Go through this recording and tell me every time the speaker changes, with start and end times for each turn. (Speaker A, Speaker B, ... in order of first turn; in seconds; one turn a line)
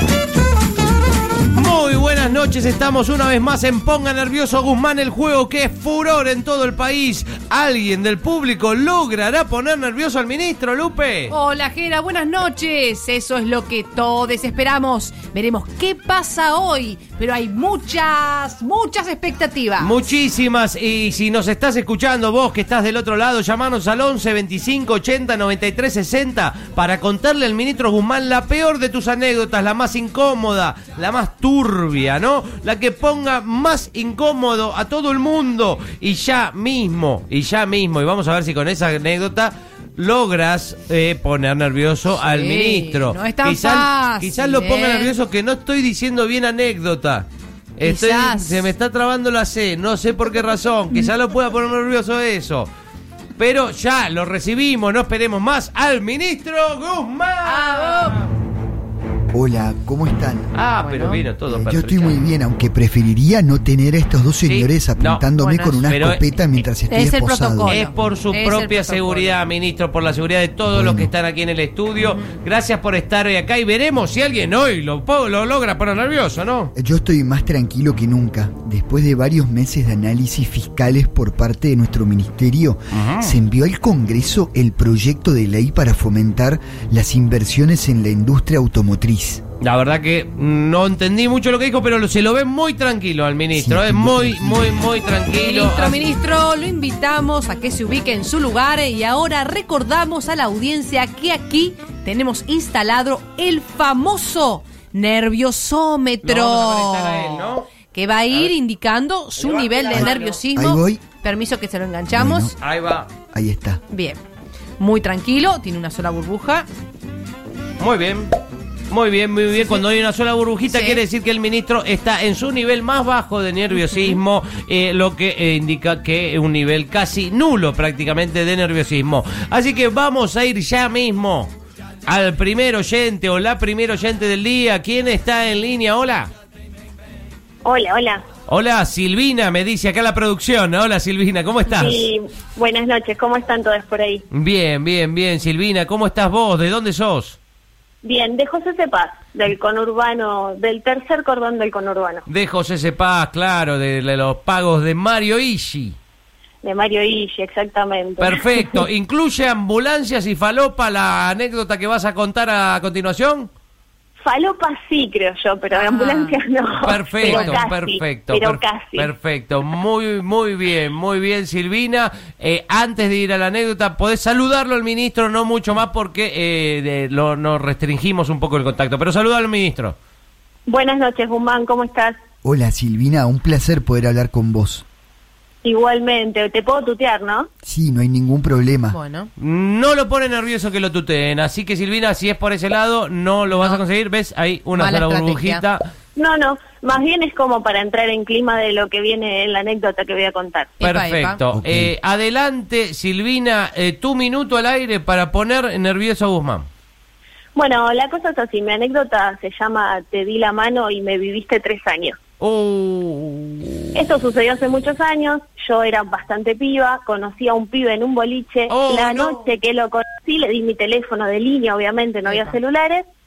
Speaker A: 1.5-11.3
Speaker B: 11.3-20.0
Speaker A: 19.8-47.3
Speaker B: 42.2-45.1
Speaker A: 47.8-52.7
Speaker B: 47.8-48.7
Speaker A: 53.4-58.3
Speaker B: 57.4-58.2
Speaker C: 59.3-60.6
Speaker A: 60.5-62.2
Speaker B: 60.8-61.2
Speaker C: 61.5-67.8
Speaker A: 64.4-65.3
Speaker B: 65.4-65.8
Speaker A: 65.8-66.3
Speaker B: 66.9-69.4
Speaker A: 67.7-76.7
Speaker C: 70.7-71.1
Speaker B: 72.0-72.4
Speaker C: 76.7-89.4
Speaker A: 82.9-83.4
Speaker A: 89.6-96.0
Speaker C: 93.5-94.7
Speaker B: 95.4-112.6
Speaker A: 106.2-107.7
Speaker A: 109.4-110.4
Speaker C: 109.9-111.0
Speaker C: 112.1-112.5
Speaker A: 112.6-113.1
Speaker C: 113.3-113.8
Speaker B: 113.9-114.2
Speaker B: 114.8-116.7
Speaker A: 117.8-118.3
Speaker A: 118.9-131.5
Speaker B: 120.7-121.0
Speaker B: 123.7-124.2
Speaker A: 132.1-136.3
Speaker D: 137.6-138.2
Speaker A: 138.5-142.1
Speaker D: 141.7-144.2
Speaker A: 144.3-147.4
Speaker D: 148.0-152.2
Speaker A: 152.3-155.9
Speaker D: 156.6-158.8
Speaker A: 158.2-163.5
Speaker D: 164.2-169.1
Speaker B: 165.7-166.4
Speaker A: 166.8-179.9
Speaker B: 167.2-167.6
Speaker D: 180.7-182.2
Speaker C: 182.4-184.8
Speaker D: 185.6-187.5
Speaker C: 187.6-189.0
Speaker B: 188.9-189.3
Speaker A: 189.4-195.8
Speaker B: 193.5-193.8
Speaker B: 194.7-195.6
Speaker D: 196.2-200.7
Speaker B: 200.8-201.4
Speaker A: 200.8-206.7
Speaker C: 201.5-201.9
Speaker D: 207.5-212.2
Speaker A: 212.4-213.9
Speaker D: 213.9-223.0
Speaker A: 218.7-219.5
Speaker B: 222.2-222.6